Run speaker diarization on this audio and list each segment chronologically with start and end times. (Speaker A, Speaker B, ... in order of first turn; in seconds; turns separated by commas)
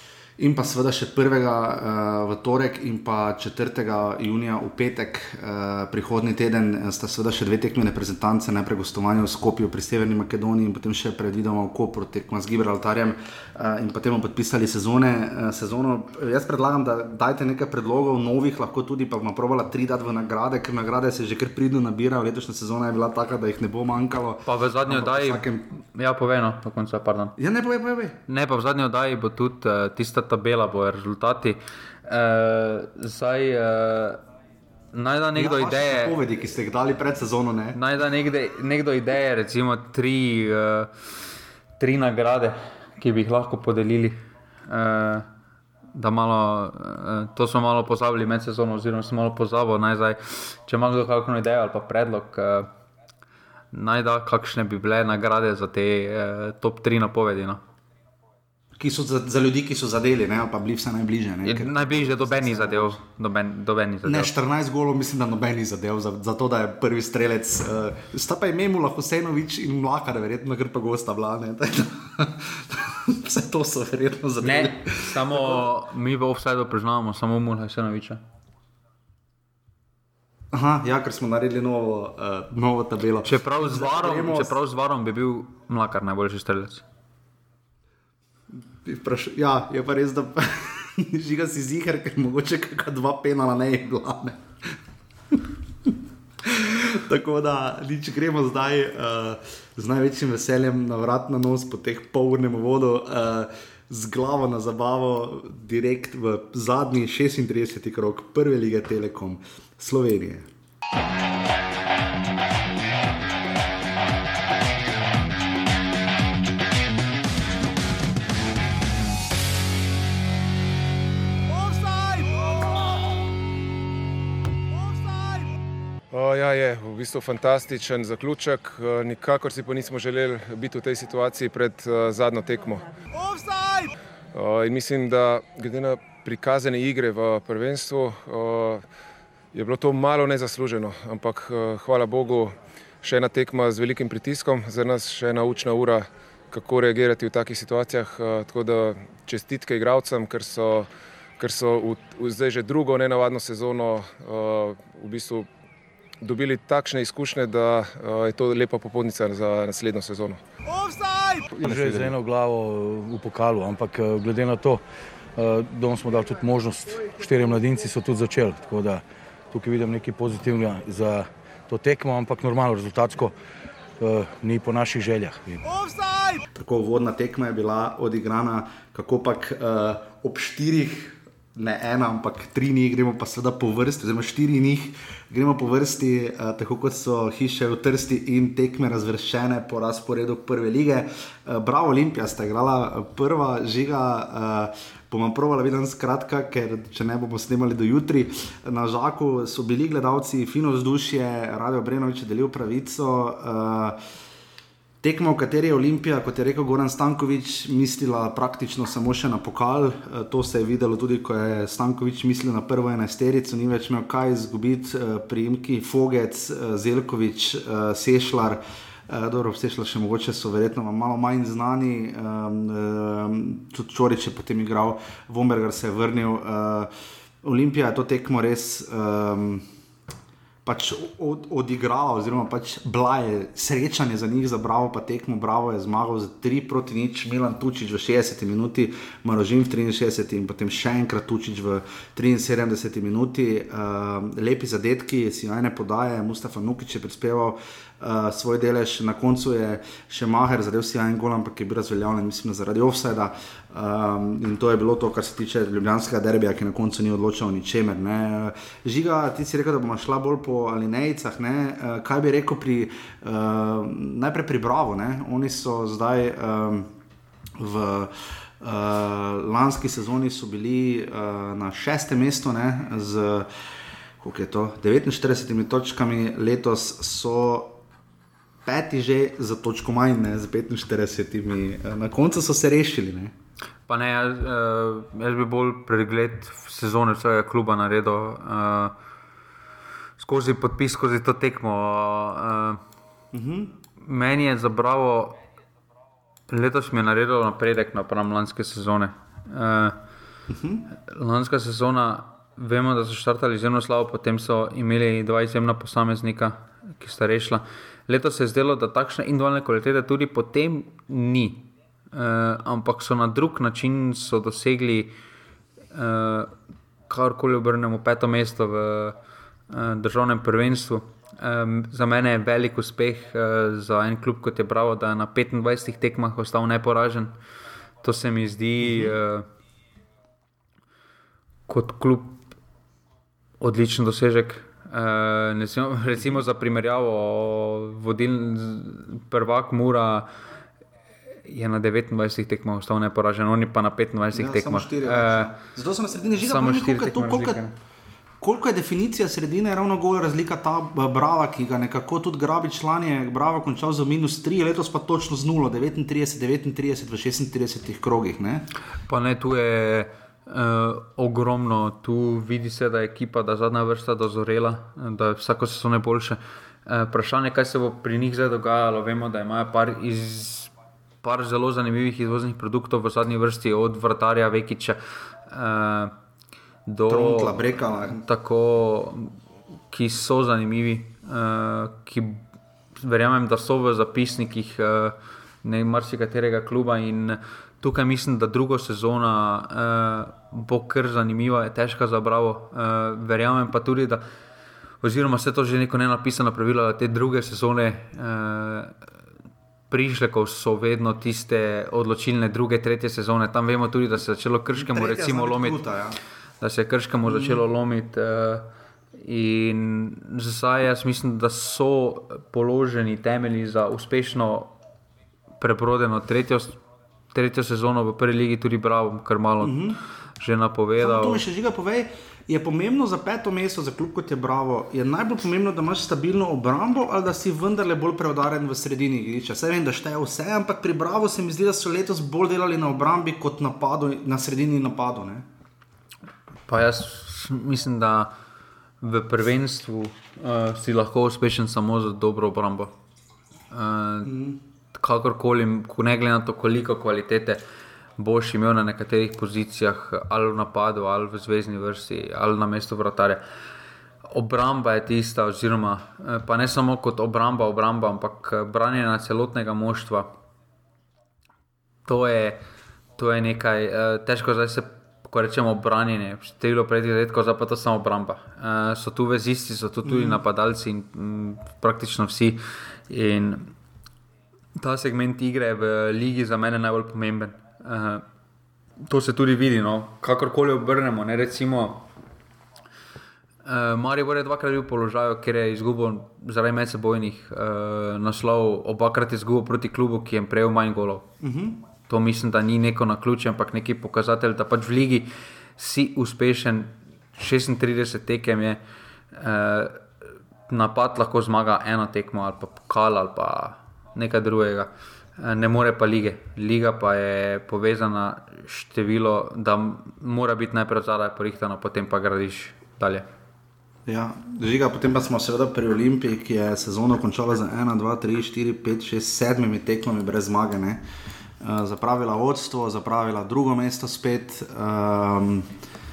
Speaker A: 0.4-25.7, Speaker B: 24.4-27.3, Speaker A: 27.4-28.2, Speaker B: 28.3-34.2, Speaker B: 34.9-36.2, Speaker A: 35.3-37.8, Speaker B: 37.7-40.9, Speaker B: 41.8-45.3, Speaker B: 45.9-52.7, Speaker B: 53.7-57.6, Speaker A: 58.8-63.0, Speaker B: 61.4-64.3, Speaker A: 64.0-75.7, Speaker B: 74.4-78.2, Speaker A: 80.5-84.6, Speaker B: 83.2-86.8, Speaker A: 88.5-94.7, Speaker A: 95.3-110.5, Speaker C: 126.1-132.9, Speaker C: 134.3-138.8, Speaker C: 139.5-150.9, Speaker C: 151.4-155.5, Speaker C: 156.2-160.4, Speaker D: 161.6-164.8, Speaker C: 161.6-162.2, Speaker D: 165.3-173.3, Speaker D: 174.0-175.6, Speaker A: 176.5-204.0, Speaker A: 205.0-226.9, Speaker A: 227.4-229.7, Speaker A: 230.6-266.9, Speaker A: 267.6-273.5, Speaker A: 274.2-277.8, Speaker A: 278.6-283.3, Speaker B: 283.9-288.9, Speaker B: 290.2-292.8, Speaker A: 293.3-293.7, Speaker B: 294.0-295.4, Speaker B: 296.5-300.0, Speaker A: 300.5-300.9, Speaker B: 301.1-315.1, Speaker B: 315.9-316.5, Speaker B: 317.1-319.1, Speaker B: 319.7-327.3, Speaker B: 328.0-329.4, Speaker A: 328.8-329.1, Speaker B: 331.7-332.4, Speaker B: 333.6-340.3, Speaker B: 341.4-345.5, Speaker A: 344.3-347.6, Speaker B: 346.4-347.7, Speaker A: 348.4-358.6, Speaker B: 359.1-370.7, Speaker B: 371.2-376.1, Speaker B: 376.9-379.3, Speaker A: 377.1-378.2, Speaker B: 379.9-382.4, Speaker B: 382.9-394.2, Speaker B: 395.0-398.9, Speaker B: 399.9-405.8, Speaker A: 404.7-406.2, Speaker B: 406.6-408.6, Speaker A: 407.3-407.6, Speaker B: 409.2-414.7, Speaker B: 415.6-416.8, Speaker B: 417.3-419.8, Speaker A: 419.6-420.0, Speaker B: 420.4-421.4, Speaker A: 421.0-435.4, Speaker B: 436.7-438.3, Speaker B: 439.0-442.9, Speaker B: 443.7-444.3, Speaker A: 444.2-444.6, Speaker B: 444.9-447.6, Speaker B: 448.2-453.4, Speaker B: 454.3-460.3, Speaker B: 462.1-462.6, Speaker B: 463.2-473.7, Speaker A: 470.0-470.4, Speaker B: 474.8-478.2, Speaker B: 479.1-482.1, Speaker B: 483.6-491.2, Speaker A: 491.4-491.8, Speaker B: 492.1-498.8, Speaker B: 499.3-500.0, Speaker B: 500.7-513.2, Speaker A: 514.0-521.0, Speaker A: 521.6-525.7